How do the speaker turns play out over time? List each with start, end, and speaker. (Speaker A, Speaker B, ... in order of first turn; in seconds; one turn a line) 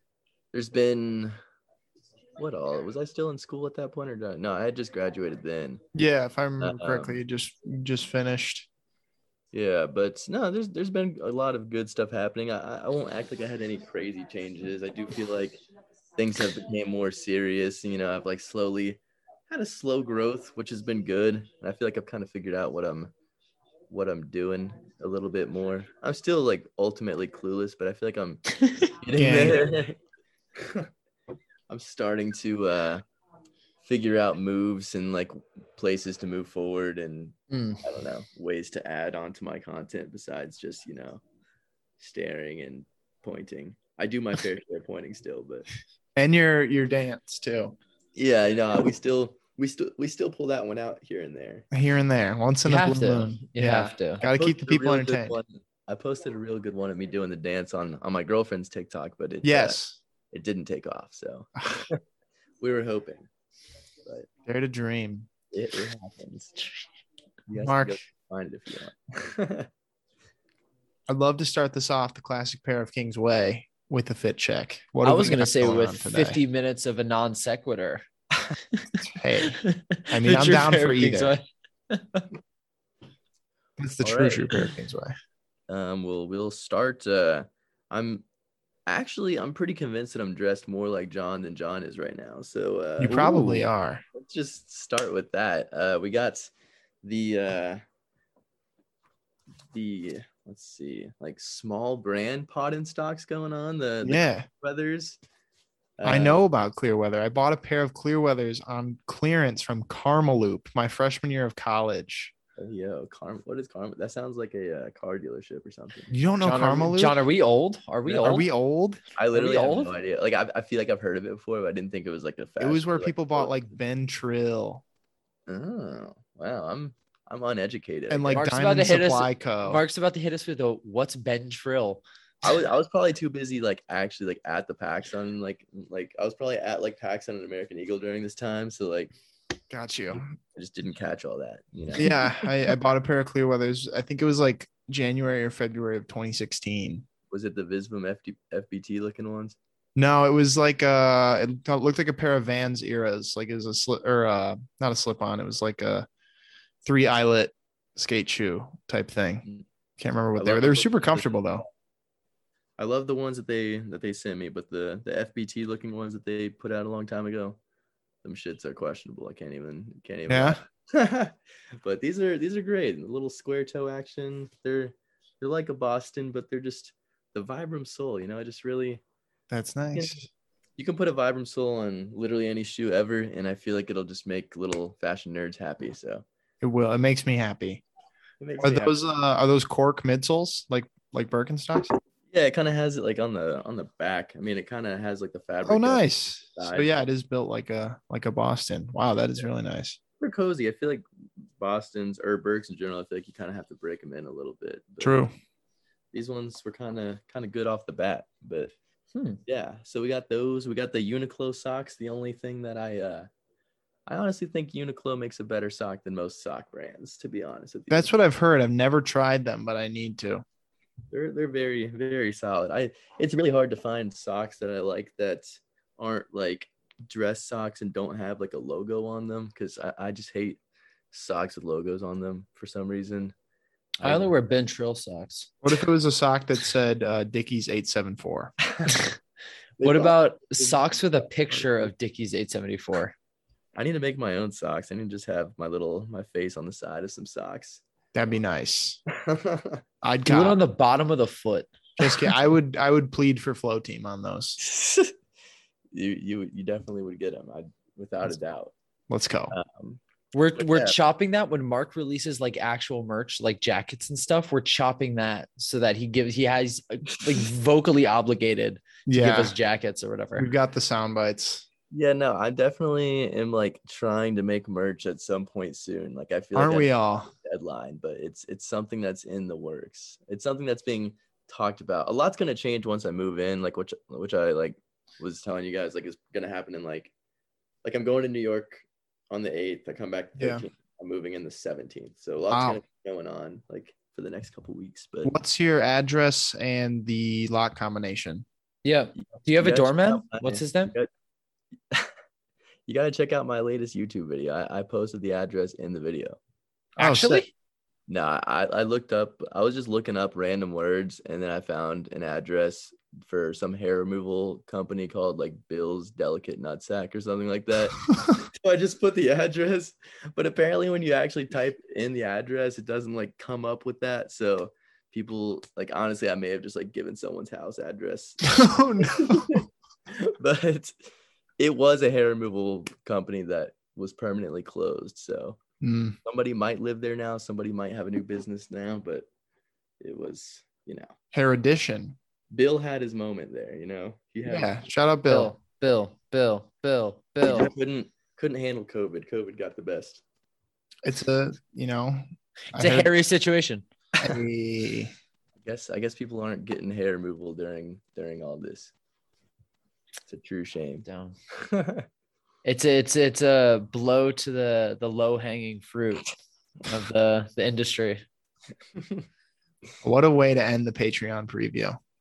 Speaker A: 0.5-1.3
Speaker A: 2.4-5.8
Speaker B: 5.9-8.7
Speaker A: 6.6-7.2
Speaker A: 9.5-15.6
Speaker A: 16.2-23.1
Speaker A: 23.9-30.0
Speaker B: 29.1-29.6
Speaker A: 30.6-30.9
Speaker A: 31.7-33.0
Speaker A: 33.9-41.2
Speaker C: 37.5-37.8
Speaker A: 42.0-45.7
Speaker B: 46.1-47.8
Speaker A: 48.1-51.6
Speaker B: 51.7-55.4
Speaker C: 52.6-54.2
Speaker A: 54.2-59.8
Speaker B: 59.4-60.0
Speaker A: 60.3-62.0
Speaker A: 62.6-63.3
Speaker B: 64.5-65.3
Speaker A: 65.5-66.5
Speaker A: 67.5-69.7
Speaker B: 67.5-68.0
Speaker B: 71.1-76.4
Speaker C: 75.0-78.0
Speaker B: 79.0-79.6
Speaker C: 79.4-82.2
Speaker B: 80.1-81.3
Speaker B: 83.8-85.1
Speaker A: 84.0-84.6
Speaker A: 85.7-88.2
Speaker A: 88.9-96.5
Speaker B: 93.0-94.0
Speaker A: 97.0-97.8
Speaker A: 99.7-105.2
Speaker B: 104.0-104.5
Speaker A: 106.0-106.4
Speaker B: 106.0-112.3
Speaker A: 112.6-116.1
Speaker B: 116.1-117.2
Speaker C: 116.4-118.5
Speaker B: 118.2-119.0
Speaker A: 119.2-123.7
Speaker C: 119.3-119.9
Speaker B: 122.6-124.8
Speaker A: 125.5-128.4
Speaker B: 128.1-129.8
Speaker C: 128.3-132.0
Speaker A: 132.4-139.1
Speaker B: 139.7-140.3
Speaker A: 140.5-142.3
Speaker B: 142.0-147.1
Speaker A: 147.3-149.6
Speaker B: 149.9-156.1
Speaker B: 156.8-159.4
Speaker B: 160.0-161.7
Speaker A: 160.3-161.6
Speaker A: 162.8-167.6
Speaker A: 168.2-179.0
Speaker B: 170.3-170.6
Speaker B: 179.5-180.2
Speaker A: 179.9-180.2
Speaker A: 180.8-186.2
Speaker B: 186.6-187.8
Speaker A: 188.4-189.0
Speaker B: 188.6-192.0
Speaker A: 192.3-197.0
Speaker B: 195.6-200.0
Speaker A: 200.2-205.2
Speaker B: 205.0-205.3
Speaker A: 206.1-208.7
Speaker A: 209.4-213.3
Speaker A: 214.1-218.1
Speaker B: 217.9-220.4
Speaker A: 221.1-230.6
Speaker A: 231.1-233.3
Speaker A: 234.0-234.3
Speaker C: 234.0-235.5
Speaker B: 235.6-238.5
Speaker A: 238.7-239.0
Speaker A: 239.8-241.0
Speaker C: 239.8-243.1
Speaker A: 243.7-247.8
Speaker B: 248.1-249.0
Speaker A: 249.1-249.8
Speaker B: 250.0-250.6
Speaker C: 250.2-251.7
Speaker B: 252.0-254.6
Speaker A: 254.6-255.2
Speaker A: 255.9-258.7
Speaker B: 259.1-259.6
Speaker A: 259.5-260.0
Speaker C: 260.3-270.5
Speaker A: 260.6-260.9
Speaker B: 269.1-269.5
Speaker B: 270.4-271.6
Speaker A: 271.9-287.1
Speaker B: 276.5-277.3
Speaker A: 287.8-295.4
Speaker B: 290.4-290.6
Speaker B: 292.5-292.8
Speaker B: 295.2-298.4
Speaker C: 298.8-300.9
Speaker A: 299.6-301.1
Speaker A: 302.9-306.4
Speaker C: 307.0-307.5
Speaker B: 307.0-307.4
Speaker A: 308.1-329.6
Speaker B: 328.4-329.6
Speaker A: 330.2-331.0
Speaker A: 331.6-335.6
Speaker B: 335.8-336.2
Speaker A: 336.2-339.2
Speaker A: 340.0-341.1
Speaker B: 341.3-342.2
Speaker A: 342.5-344.7
Speaker B: 344.4-345.5
Speaker C: 345.2-347.7
Speaker A: 347.4-350.2
Speaker B: 351.0-352.2
Speaker B: 352.7-353.2
Speaker C: 352.7-353.8
Speaker B: 354.2-355.1
Speaker A: 355.6-358.9
Speaker A: 360.3-361.0
Speaker C: 361.0-361.4
Speaker A: 361.6-362.1
Speaker C: 362.6-366.3
Speaker C: 366.8-368.2
Speaker B: 370.0-372.0